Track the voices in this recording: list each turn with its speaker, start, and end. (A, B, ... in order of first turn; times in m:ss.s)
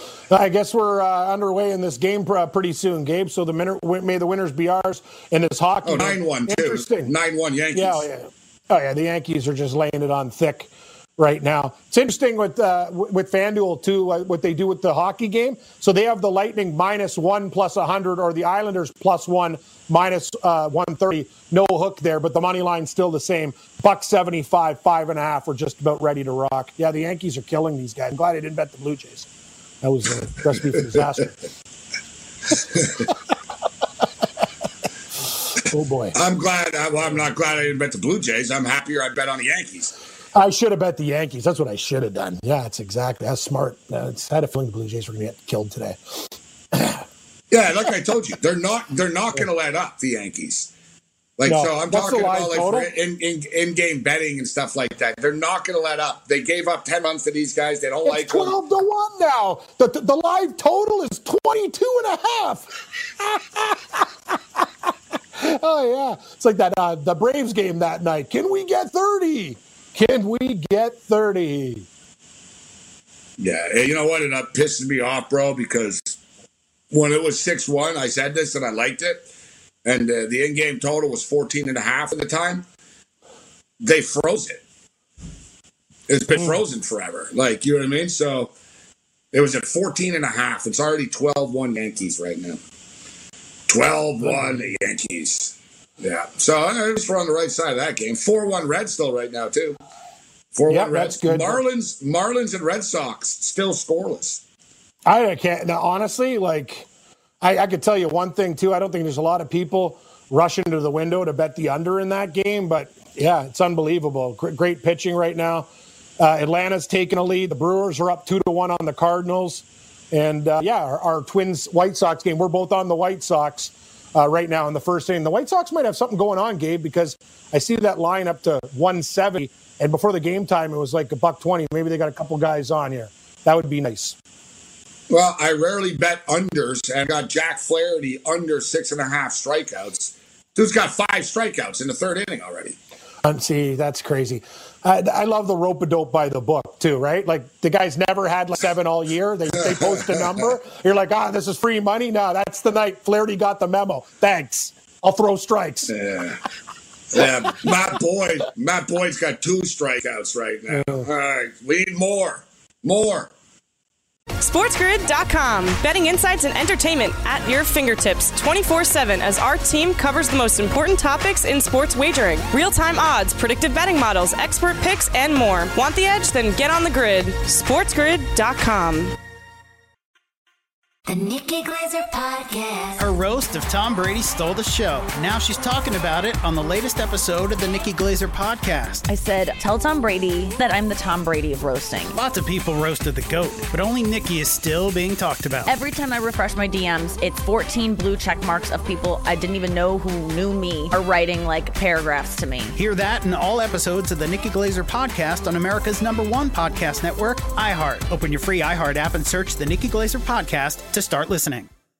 0:00.3-0:07.1 A
0:05.8-0:08.0 B
0:07.7-0:29.3 A
0:29.8-0:31.3 A
0:35.6-0:36.2 A
0:36.1-0:39.9 B
0:40.3-0:47.0 A
0:47.5-0:50.7 B
0:51.4-0:58.6 B
0:51.4-0:52.9 A
0:58.1-1:11.8 A
1:13.4-1:16.2 B
1:16.9-1:19.2 B
1:19.8-1:22.6 B
1:23.8-1:24.6 B
1:26.1-1:28.5 B
1:29.3-1:32.6 B
1:33.7-1:39.8 B
1:34.2-1:34.6 A
1:40.5-1:44.4 B
1:40.7-1:41.6 A
1:45.0-1:46.8 A
1:47.4-1:55.7 A
1:56.2-2:14.2 A
2:15.1-2:22.8 B
2:23.2-2:35.9 A
2:35.9-2:36.4 B
2:37.1-2:43.3 B
2:40.7-2:41.1 A
2:44.4-2:59.2 C
3:01.1-3:03.0 D
3:03.0-3:09.0 E
3:09.1-3:12.2 D
3:12.1-3:15.7 E
3:15.7-3:22.7 D
3:22.7-3:31.7 E